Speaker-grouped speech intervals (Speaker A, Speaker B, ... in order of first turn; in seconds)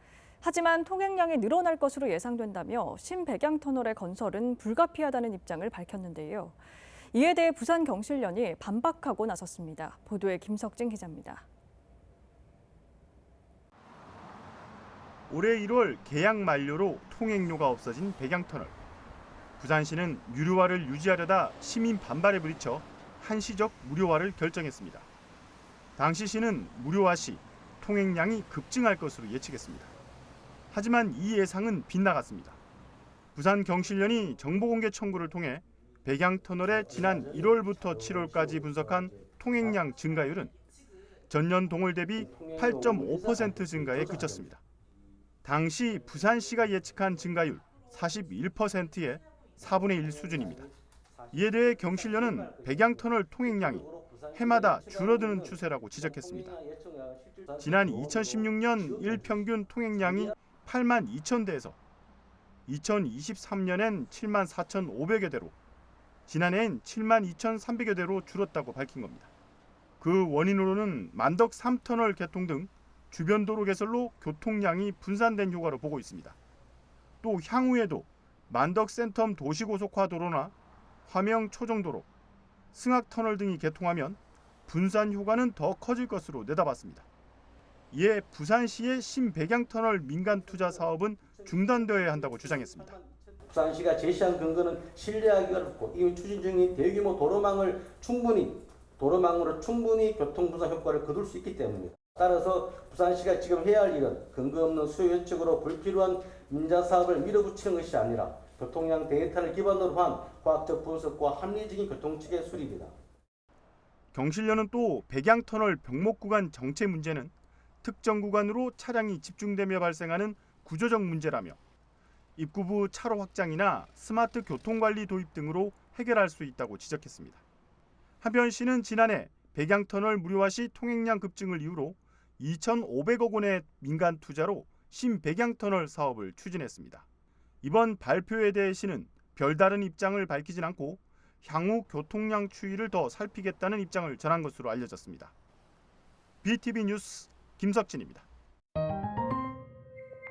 Speaker A: 0.4-6.6, 7.1-11.4
Speaker B: 15.3-18.8, 19.6-25.1, 26.0-29.9, 30.7-32.6, 33.4-40.5, 41.3-44.6, 45.4-50.7, 51.3-56.6, 57.6-61.8, 62.7-65.5, 66.3-69.3, 70.0-76.4, 77.2-80.5, 81.1-82.1, 82.7-87.1, 87.9-93.0, 114.1-121.6, 122.4-127.4, 128.2-137.1, 137.6-145.3, 146.4-148.3
Speaker C: 36.6-39.8, 42.1-44.5, 46.2-46.8, 49.6-60.4, 90.2-112.9